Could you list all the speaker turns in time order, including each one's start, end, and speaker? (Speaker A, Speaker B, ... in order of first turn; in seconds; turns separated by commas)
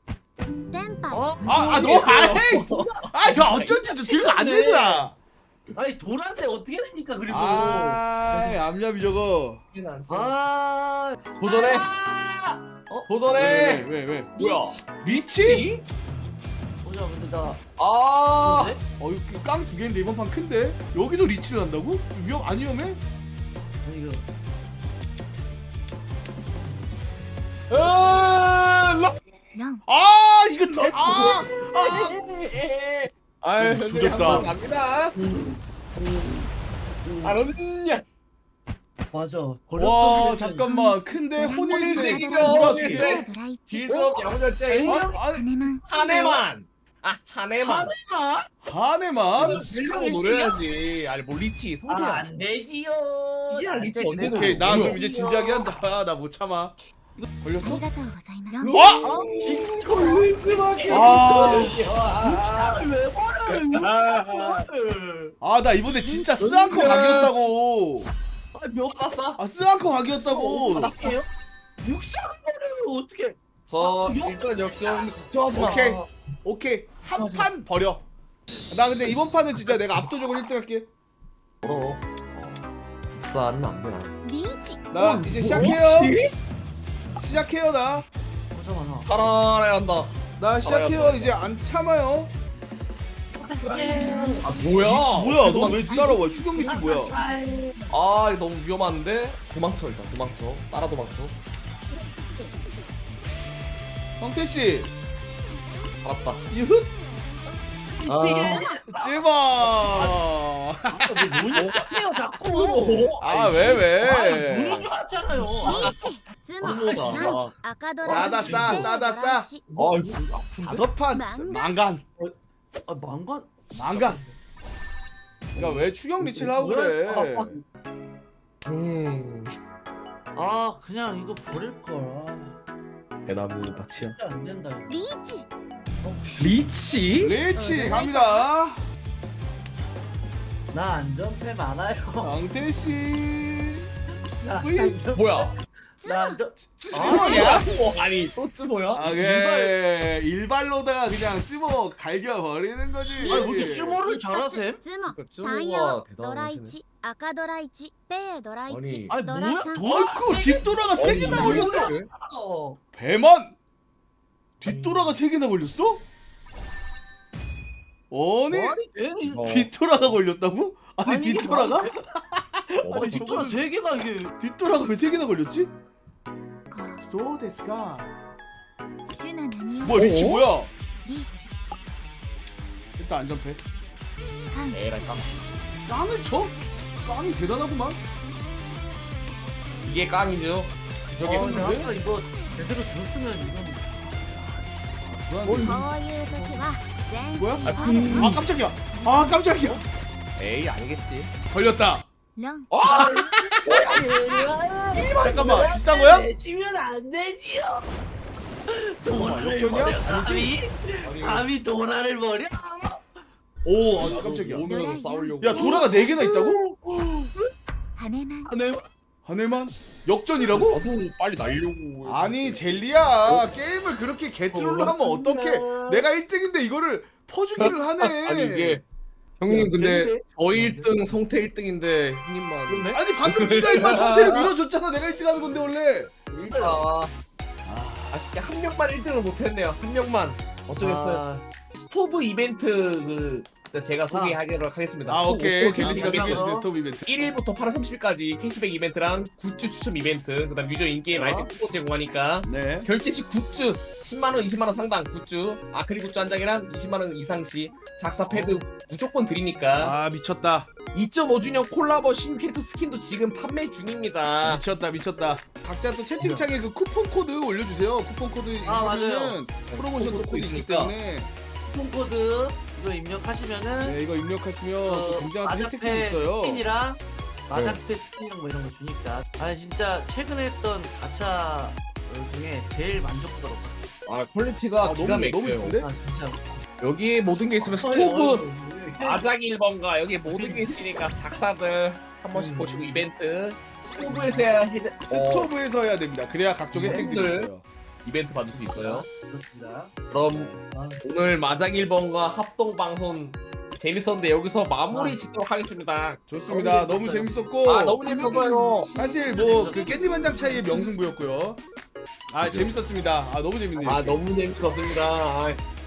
Speaker A: 0.5-1.4, Speaker B: 1.1-3.0, Speaker C: 1.4-5.2, Speaker D: 1.7-3.8, Speaker B: 3.8-5.1, Speaker B: 5.7-8.6, Speaker C: 7.3-9.6, Speaker D: 9.7-10.4, Speaker B: 10.1-13.1, Speaker D: 11.4-11.9, Speaker D: 13.1-15.8, Speaker C: 13.3-14.3, Speaker A: 14.3-14.9, Speaker C: 15.0-15.7, Speaker B: 16.8-17.6, Speaker D: 17.8-18.8, Speaker B: 18.4-18.8, Speaker C: 19.0-23.0, Speaker B: 23.8-24.2, Speaker D: 27.7-29.1, Speaker A: 29.5-29.8, Speaker C: 29.9-32.1, Speaker D: 30.8-35.1, Speaker C: 33.6-34.5, Speaker B: 35.1-35.6, Speaker D: 36.0-36.4, Speaker B: 37.0-37.4, Speaker D: 37.2-38.0, Speaker B: 39.1-40.7, Speaker C: 39.8-43.2, Speaker A: 40.6-43.9, Speaker D: 41.7-45.1, Speaker B: 42.5-43.0, Speaker B: 43.9-45.2, Speaker C: 44.8-45.5, Speaker A: 45.2-45.9, Speaker D: 45.8-47.9, Speaker B: 45.9-46.4, Speaker B: 47.6-48.5, Speaker C: 48.6-49.6, Speaker D: 49.3-52.3, Speaker B: 49.4-50.6, Speaker B: 51.9-55.7, Speaker D: 53.5-55.0, Speaker C: 54.2-56.7, Speaker C: 57.4-57.8, Speaker A: 57.6-58.8, Speaker D: 58.6-62.9, Speaker B: 58.6-65.3, Speaker C: 58.7-59.1, Speaker C: 60.9-61.9, Speaker D: 63.5-64.7, Speaker C: 65.4-68.1, Speaker A: 65.9-67.0, Speaker D: 66.4-67.5, Speaker D: 68.5-69.4, Speaker C: 69.4-70.9, Speaker D: 70.2-71.2, Speaker B: 70.4-71.2, Speaker B: 71.8-76.0, Speaker D: 73.7-76.0, Speaker C: 75.5-78.0, Speaker D: 77.1-77.5, Speaker C: 78.7-80.9, Speaker D: 81.6-84.1, Speaker A: 84.2-84.8, Speaker C: 84.9-86.1, Speaker D: 84.9-86.3, Speaker B: 85.5-85.8, Speaker C: 87.2-88.1, Speaker B: 88.5-89.2, Speaker D: 89.0-90.1, Speaker C: 90.4-92.3, Speaker D: 90.6-91.4, Speaker B: 93.4-94.8, Speaker A: 93.4-94.5, Speaker D: 93.6-96.2, Speaker C: 94.8-97.1, Speaker A: 95.5-97.9, Speaker B: 96.6-97.8, Speaker D: 97.9-101.3, Speaker C: 104.2-104.9, Speaker D: 106.0-106.5, Speaker C: 106.5-106.9, Speaker B: 108.0-110.2, Speaker D: 108.0-108.8, Speaker C: 108.9-111.5, Speaker B: 110.9-116.0, Speaker D: 111.5-114.9, Speaker C: 113.2-114.9, Speaker A: 115.4-119.7, Speaker D: 115.6-116.0, Speaker B: 116.6-117.5, Speaker D: 116.6-117.5, Speaker D: 118.0-118.5, Speaker B: 118.1-118.9, Speaker C: 118.1-119.5, Speaker B: 119.7-120.3, Speaker D: 119.7-120.8, Speaker C: 120.6-122.0, Speaker A: 121.0-121.7, Speaker B: 122.9-124.3, Speaker C: 123.7-124.2, Speaker C: 125.5-127.6, Speaker B: 125.5-127.6, Speaker D: 128.6-129.5, Speaker B: 130.3-132.6, Speaker D: 133.3-134.2, Speaker B: 134.0-135.0, Speaker A: 134.9-135.5, Speaker B: 136.0-136.4, Speaker A: 136.3-136.5, Speaker D: 136.4-137.3, Speaker C: 137.2-138.8, Speaker A: 137.5-138.5, Speaker B: 140.7-142.3, Speaker C: 142.2-143.9, Speaker B: 144.4-147.6, Speaker C: 144.6-145.0, Speaker D: 145.1-145.5, Speaker A: 146.0-146.4, Speaker D: 146.9-149.1, Speaker C: 146.9-147.7, Speaker C: 148.9-154.0, Speaker B: 149.1-149.7, Speaker A: 153.2-160.1, Speaker B: 153.2-154.8, Speaker D: 155.0-156.8, Speaker D: 158.7-159.1, Speaker B: 159.1-162.8, Speaker C: 159.8-161.9, Speaker D: 160.9-162.1, Speaker A: 161.1-161.7, Speaker C: 162.9-163.6, Speaker C: 164.6-166.0, Speaker B: 164.7-165.2, Speaker C: 168.1-168.8, Speaker B: 168.5-169.6, Speaker D: 169.3-169.7, Speaker C: 169.4-173.7, Speaker B: 171.0-171.9, Speaker D: 172.8-173.5, Speaker B: 172.9-174.3, Speaker C: 174.4-175.7, Speaker A: 176.7-177.1, Speaker C: 177.1-178.1, Speaker A: 179.0-180.1, Speaker C: 179.8-180.7, Speaker D: 179.9-180.4, Speaker A: 181.0-181.5, Speaker C: 183.0-183.6, Speaker A: 184.5-184.8, Speaker D: 184.7-185.4, Speaker C: 185.9-188.0, Speaker D: 189.8-191.7, Speaker C: 191.2-191.9, Speaker B: 191.2-193.9, Speaker C: 195.0-195.9, Speaker D: 195.4-195.8, Speaker A: 195.6-199.7, Speaker B: 196.3-196.6, Speaker C: 197.4-199.8, Speaker D: 197.6-198.4, Speaker D: 200.3-201.3, Speaker C: 201.5-202.1, Speaker A: 202.3-203.5, Speaker D: 202.7-205.7, Speaker B: 202.8-207.9, Speaker C: 205.2-206.3, Speaker B: 208.7-213.0, Speaker C: 209.1-210.5, Speaker D: 211.0-211.5, Speaker C: 213.6-214.7, Speaker D: 214.0-216.1, Speaker A: 214.7-215.7, Speaker C: 215.4-216.6, Speaker B: 215.5-217.4, Speaker A: 217.9-218.5, Speaker B: 218.4-218.8, Speaker C: 219.2-220.8, Speaker D: 220.5-223.5, Speaker C: 222.0-228.8, Speaker B: 224.5-226.0, Speaker D: 224.6-225.0, Speaker D: 227.6-228.8, Speaker D: 229.4-234.5, Speaker B: 229.5-231.2, Speaker B: 232.7-233.0, Speaker C: 232.9-236.1, Speaker D: 236.3-237.1, Speaker B: 236.5-236.8, Speaker C: 237.7-238.1, Speaker D: 238.1-241.2, Speaker B: 240.8-241.5, Speaker D: 241.7-246.5, Speaker B: 244.1-244.4, Speaker C: 245.1-247.1, Speaker B: 245.6-246.7, Speaker D: 247.0-260.0, Speaker B: 251.1-251.5, Speaker C: 252.4-252.9, Speaker C: 258.3-258.6, Speaker C: 259.8-260.7, Speaker D: 260.9-264.6, Speaker C: 264.4-271.3, Speaker B: 268.6-269.4, Speaker D: 269.7-270.9, Speaker B: 271.7-274.0, Speaker C: 273.8-276.6, Speaker B: 274.8-283.9, Speaker D: 277.5-277.8, Speaker D: 284.1-285.8, Speaker C: 284.8-285.9, Speaker B: 285.7-286.6, Speaker D: 286.8-288.5, Speaker B: 287.6-289.3, Speaker D: 289.0-295.5, Speaker B: 290.2-291.0, Speaker B: 292.3-293.1, Speaker B: 294.0-294.6, Speaker C: 295.1-297.6, Speaker D: 296.7-297.5, Speaker B: 296.8-297.2, Speaker D: 298.0-299.1, Speaker B: 298.5-299.9, Speaker D: 300.1-300.5, Speaker C: 300.3-300.6, Speaker B: 300.5-301.0, Speaker D: 301.0-306.2, Speaker B: 304.9-305.2, Speaker C: 306.3-308.1, Speaker B: 306.5-307.4, Speaker D: 307.6-308.9, Speaker B: 308.0-310.9, Speaker A: 308.1-311.1, Speaker C: 308.9-311.6, Speaker C: 312.3-314.2, Speaker D: 312.4-312.7, Speaker D: 313.8-315.6